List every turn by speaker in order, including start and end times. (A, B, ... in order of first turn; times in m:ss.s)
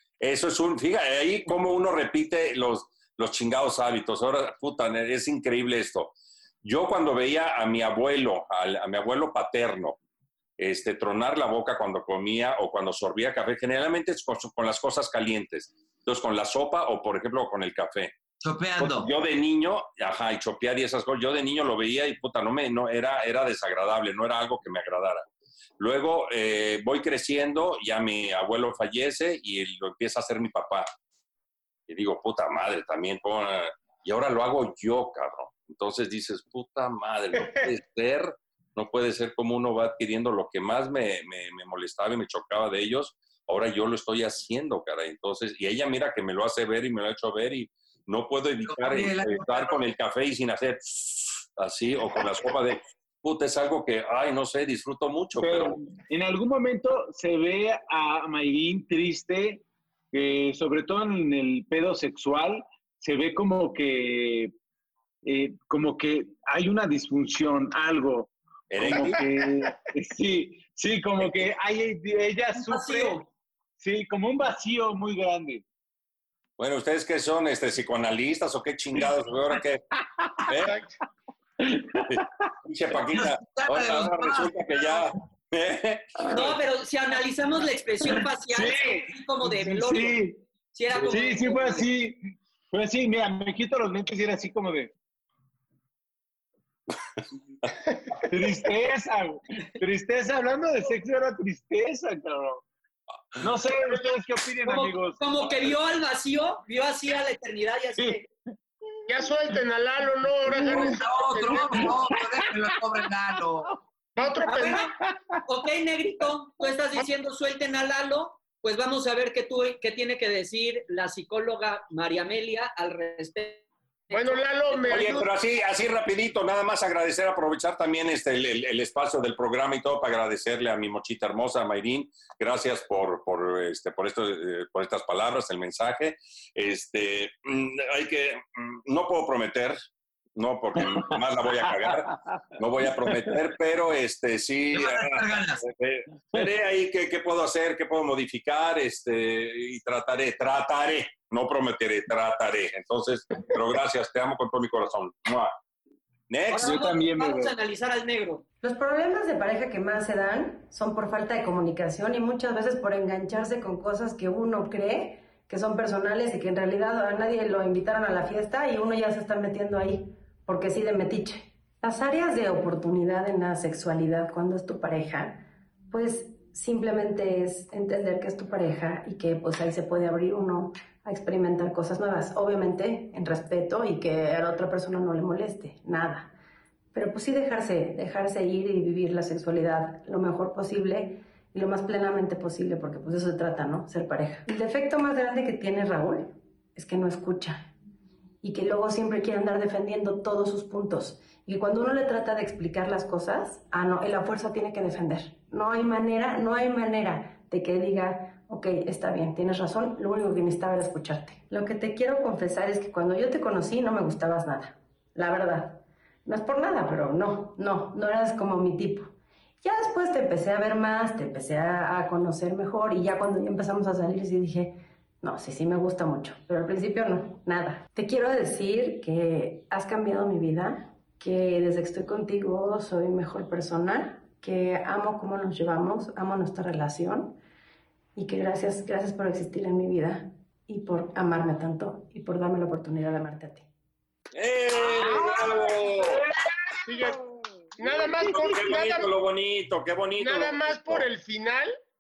0:00.2-0:06.1 A
0:06.6-0:10.0 A
0:10.6-0:18.1 A
0:18.4-0:19.1 B
0:18.8-0:25.2 A
0:25.8-0:30.9 A
0:31.9-0:55.8 A
0:48.6-0:49.9 B
0:55.4-1:04.5 C
1:05.2-1:13.2 C
1:08.7-1:09.2 A
1:08.9-1:09.2 D
1:12.6-1:13.2 E
1:13.8-1:15.6 C
1:16.6-1:19.8 A
1:20.2-1:20.5 C
1:20.5-1:20.7 A
1:20.6-1:20.9 D
1:21.6-1:22.5 C
1:22.1-1:26.4 A
1:22.9-1:25.0 B
1:26.2-1:26.5 C
1:26.3-1:30.2 E
1:28.0-1:30.4 C
1:30.7-1:31.9 E
1:30.9-1:32.2 C
1:32.7-1:34.9 C
1:38.2-1:42.6 C
1:43.4-1:45.8 C
1:43.7-1:44.1 D
1:44.6-1:48.2 E
1:48.0-1:48.3 C
1:49.1-1:51.9 D
1:50.5-1:51.0 C
1:50.7-1:53.7 B
1:51.5-1:53.0 C
1:54.2-1:54.8 D
1:54.4-1:55.4 C
1:54.5-1:54.9 E
1:55.4-2:04.8 E
2:04.1-2:05.3 D
2:04.9-2:19.8 A
2:20.3-2:35.5 A
2:20.8-2:22.4 C
2:24.7-2:25.6 B
2:36.3-2:36.8 A
2:36.5-2:38.4 E
2:36.6-2:37.5 C
2:38.6-3:06.3 F
3:06.9-3:17.7 F
3:18.4-3:57.4 F
3:58.2-4:03.7 F
4:04.3-4:06.2 A
4:04.8-4:08.7 C
4:06.8-4:07.2 D
4:07.8-4:09.1 D
4:08.3-4:11.1 A
4:10.2-4:11.7 D